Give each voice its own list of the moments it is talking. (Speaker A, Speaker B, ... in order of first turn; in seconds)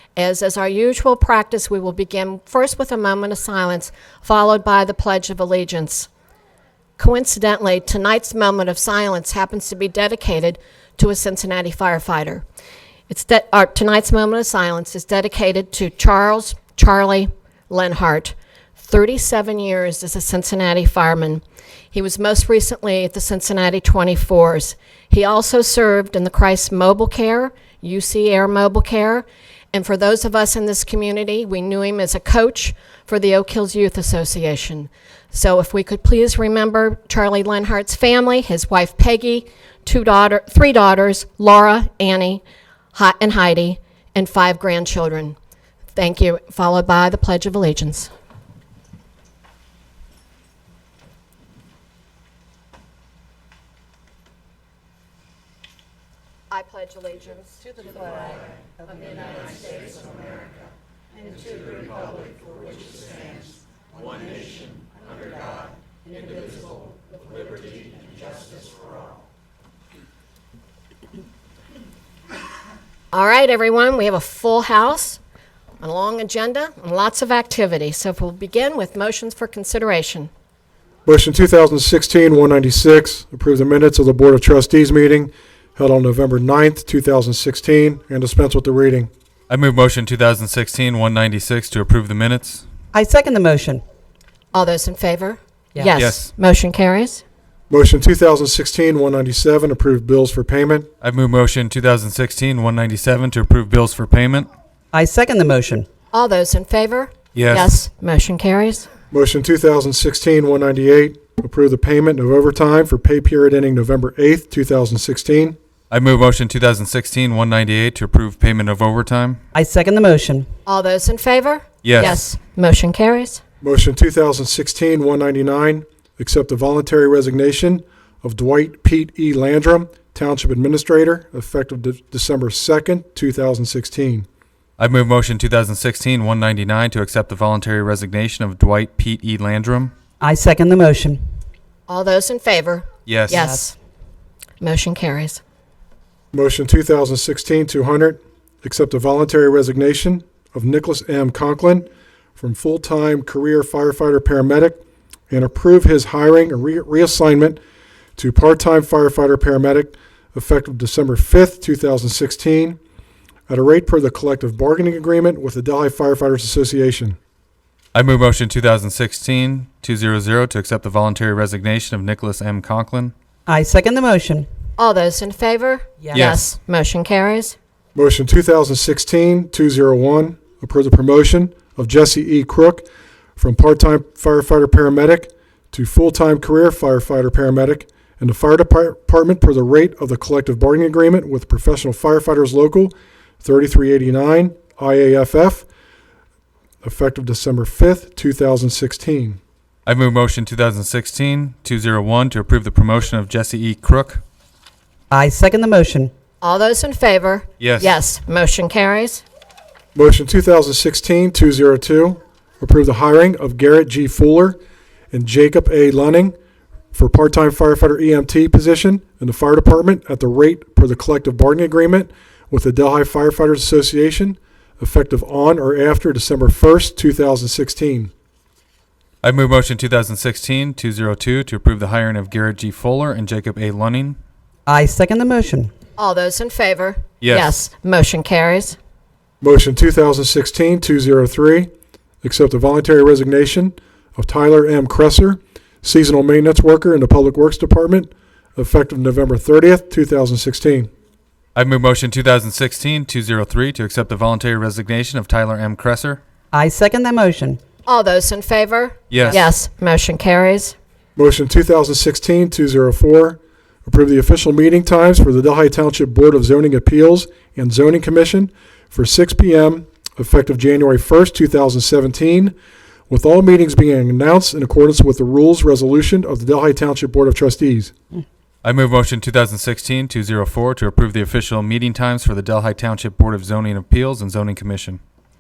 Speaker A: 0.2-6.1, 7.0-12.4, 13.1-42.4, 42.9-45.4, 46.0-48.1, 56.5-57.6, 73.1-75.2, 75.8-80.3, 94.5-97.2, 106.1-108.9, 120.7-123.4, 141.9-143.8, 144.6-145.4, 174.8-177.6, 206.4-209.2, 236.0-238.8, 257.9-260.8
Speaker B: 81.1-89.1, 97.7-100.9, 109.1-115.6, 123.6-134.3, 146.3-157.6, 158.2-162.8, 163.5-167.2, 177.9-182.9, 183.4-195.7, 196.8-199.4, 209.9-214.6, 215.1-216.3, 216.9-228.1, 239.4-241.7, 242.2-250.9, 261.2-272.5, 273.1-277.9
Speaker C: 89.5-92.7, 96.0-96.3, 101.0-104.5, 107.3-107.7, 115.9-119.4, 121.8-122.2, 134.8-139.9, 143.1-143.5, 167.9-173.1, 176.1-176.4, 199.9-204.2, 207.6-207.9, 229.2-234.2, 237.2-237.5, 251.6-256.2, 259.1-259.4, 278.6-285.0
Speaker D: 92.9-93.8, 104.9-105.9, 119.5-120.5, 140.2-141.2, 173.5-174.5, 205.1-206.1, 234.7-235.7, 256.5-257.6